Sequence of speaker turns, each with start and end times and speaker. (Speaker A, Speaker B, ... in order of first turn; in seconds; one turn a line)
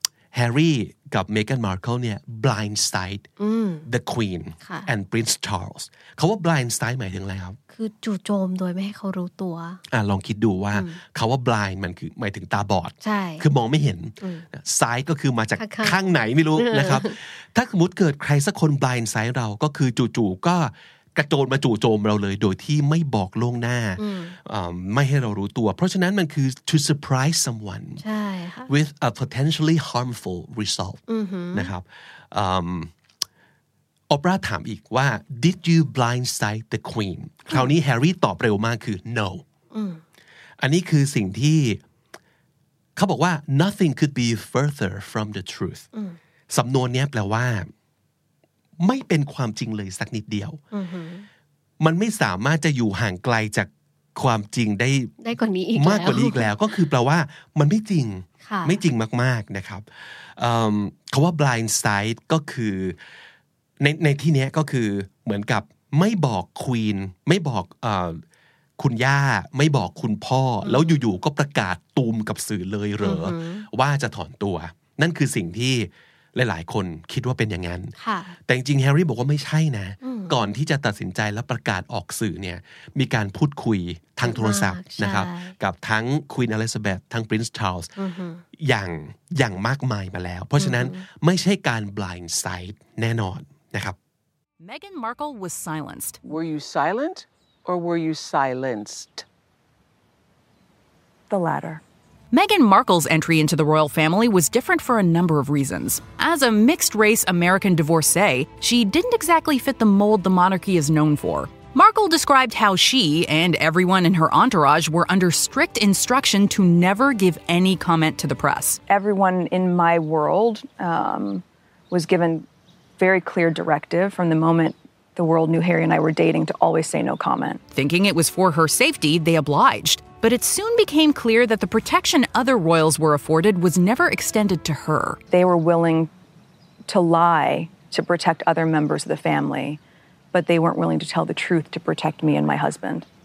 Speaker A: 0.3-3.3
Speaker B: 3.4-3.9
Speaker A: 3.9-7.6
Speaker B: 4.6-4.9
Speaker B: 7.7-9.8
Speaker A: 9.9-28.0
Speaker B: 13.0-13.4
Speaker B: 14.2-14.4
Speaker B: 15.6-16.0
Speaker B: 16.6-17.1
Speaker B: 24.0-24.4
Speaker B: 28.0-28.7
Speaker A: 28.7-32.9
Speaker B: 31.1-31.7
Speaker A: 34.1-39.4
Speaker B: 39.7-40.0
Speaker A: 40.6-41.8
Speaker A: 43.0-45.9
Speaker A: 46.5-47.7
Speaker A: 48.8-50.6
Speaker B: 50.7-51.3
Speaker A: 51.8-55.1
Speaker B: 55.2-56.5
Speaker A: 55.8-63.0
Speaker B: 58.4-58.8
Speaker A: 63.8-68.2
Speaker A: 68.8-77.9
Speaker B: 70.6-71.0
Speaker B: 73.0-73.7
Speaker B: 78.0-78.4
Speaker A: 78.5-87.9
Speaker B: 80.0-80.3
Speaker B: 84.2-85.5
Speaker B: 88.0-88.4
Speaker A: 88.6-94.0
Speaker B: 90.6-91.0
Speaker C: 94.6-96.2
Speaker D: 96.2-99.3
Speaker E: 101.3-101.8
Speaker C: 102.3-118.8
Speaker E: 118.9-122.5
Speaker E: 123.0-127.6
Speaker C: 127.7-135.2
Speaker E: 135.3-136.1
Speaker E: 136.9-139.8
Speaker E: 140.3-143.1